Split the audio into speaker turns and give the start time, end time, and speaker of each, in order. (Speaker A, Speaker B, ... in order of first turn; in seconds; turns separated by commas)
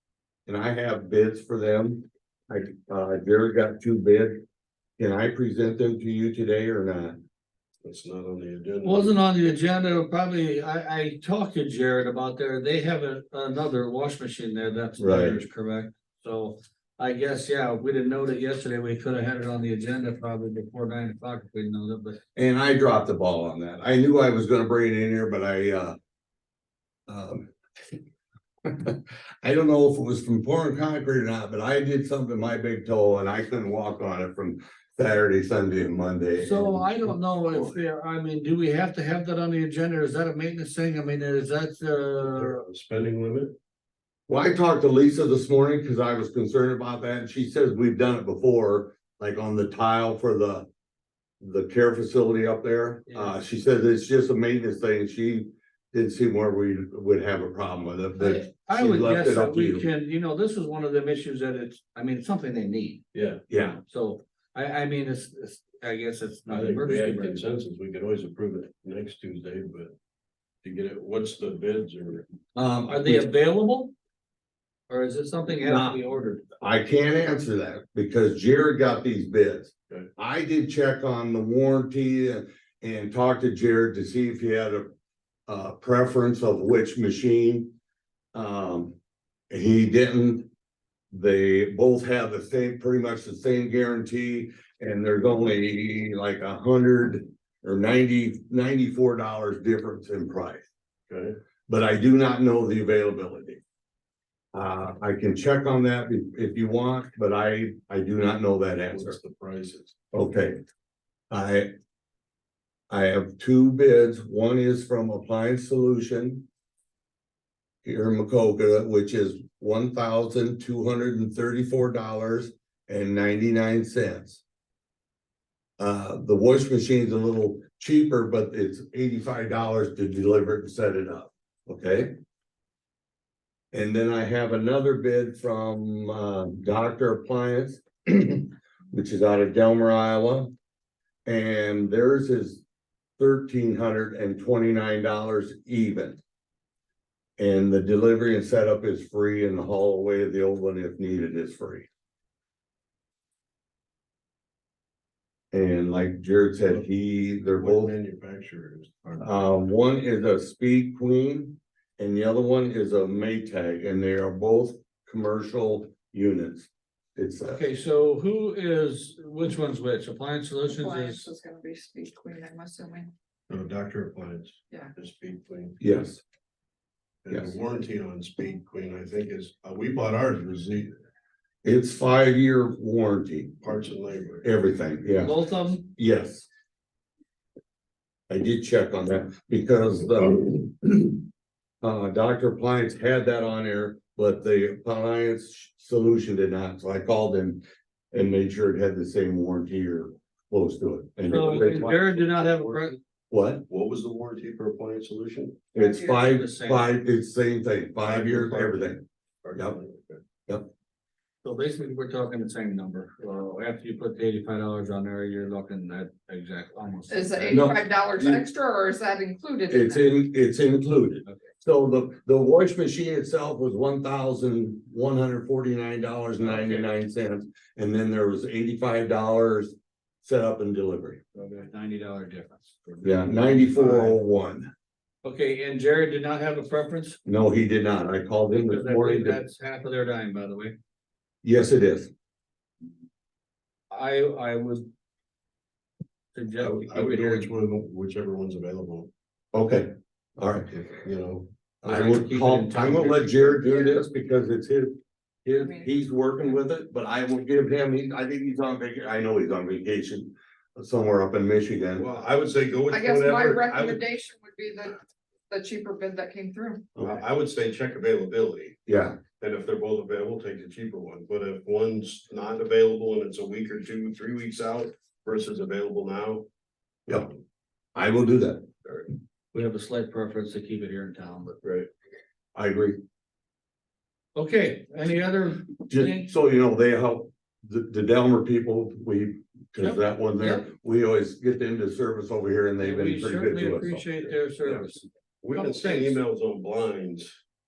Speaker A: 0.5-4.4, Speaker A: 5.0-7.2, Speaker B: 7.8-9.2, Speaker C: 8.8-22.2, Speaker A: 15.0-15.4, Speaker A: 22.4-26.0, Speaker A: 27.1-27.5, Speaker A: 28.6-37.8, Speaker C: 36.4-42.6, Speaker B: 42.2-43.5, Speaker A: 44.3-50.7, Speaker A: 51.4-59.8, Speaker C: 53.1-53.3, Speaker C: 58.2-67.4, Speaker B: 63.1-63.4, Speaker A: 63.5-63.8, Speaker B: 66.5-69.9, Speaker B: 70.6-72.3, Speaker A: 72.5-73.2, Speaker C: 72.8-73.9, Speaker C: 74.9-76.5, Speaker A: 75.6-76.0, Speaker A: 76.6-84.9, Speaker A: 85.5-87.7, Speaker A: 88.3-89.0, Speaker A: 89.5-90.5, Speaker A: 91.1-100.6, Speaker B: 101.1-101.3, Speaker A: 101.7-103.6, Speaker A: 104.5-109.2, Speaker B: 108.9-109.9, Speaker A: 110.1-110.6, Speaker A: 111.3-111.7, Speaker A: 112.9-116.5, Speaker A: 117.8-124.4, Speaker A: 125.8-132.1, Speaker A: 133.7-140.5, Speaker A: 141.2-142.6, Speaker A: 143.2-146.2, Speaker A: 147.4-151.9, Speaker A: 155.5-157.9, Speaker B: 157.5-159.4, Speaker A: 159.2-167.6, Speaker C: 167.5-171.3, Speaker D: 170.7-173.1, Speaker B: 173.5-175.8, Speaker A: 175.8-176.2, Speaker B: 177.2-180.9, Speaker A: 177.3-177.5, Speaker A: 181.6-183.6, Speaker B: 183.6-184.5, Speaker A: 184.4-185.3, Speaker C: 185.2-185.9, Speaker A: 185.8-186.5, Speaker A: 188.3-191.2, Speaker A: 191.8-202.2, Speaker C: 201.2-203.0, Speaker B: 202.4-202.8, Speaker A: 203.3-203.6, Speaker B: 203.7-205.6, Speaker A: 205.7-209.0, Speaker D: 205.8-206.2, Speaker C: 206.2-206.9, Speaker B: 208.0-210.2, Speaker C: 211.4-217.7, Speaker D: 217.1-220.2, Speaker A: 217.5-218.4, Speaker A: 219.7-231.2, Speaker C: 226.4-226.9, Speaker B: 231.3-231.6, Speaker C: 231.6-234.2, Speaker A: 233.0-234.7, Speaker C: 235.2-237.2, Speaker A: 237.2-239.4, Speaker C: 238.5-240.8, Speaker A: 241.4-242.1, Speaker C: 243.9-244.9, Speaker C: 246.3-247.5, Speaker B: 246.6-249.1, Speaker A: 249.5-250.7, Speaker B: 250.7-251.5, Speaker A: 251.8-262.1, Speaker C: 251.9-253.6, Speaker D: 253.6-254.1, Speaker D: 255.5-255.9, Speaker B: 262.0-264.0, Speaker D: 262.9-266.9, Speaker A: 266.9-267.2, Speaker B: 267.0-268.8, Speaker A: 268.9-269.2, Speaker B: 269.4-276.5, Speaker B: 277.1-277.3, Speaker A: 277.9-278.7, Speaker C: 279.5-281.6, Speaker B: 281.6-281.9, Speaker A: 282.6-283.0, Speaker C: 284.4-286.3, Speaker A: 285.9-294.1, Speaker C: 289.8-290.7, Speaker C: 292.8-296.2, Speaker B: 295.4-297.3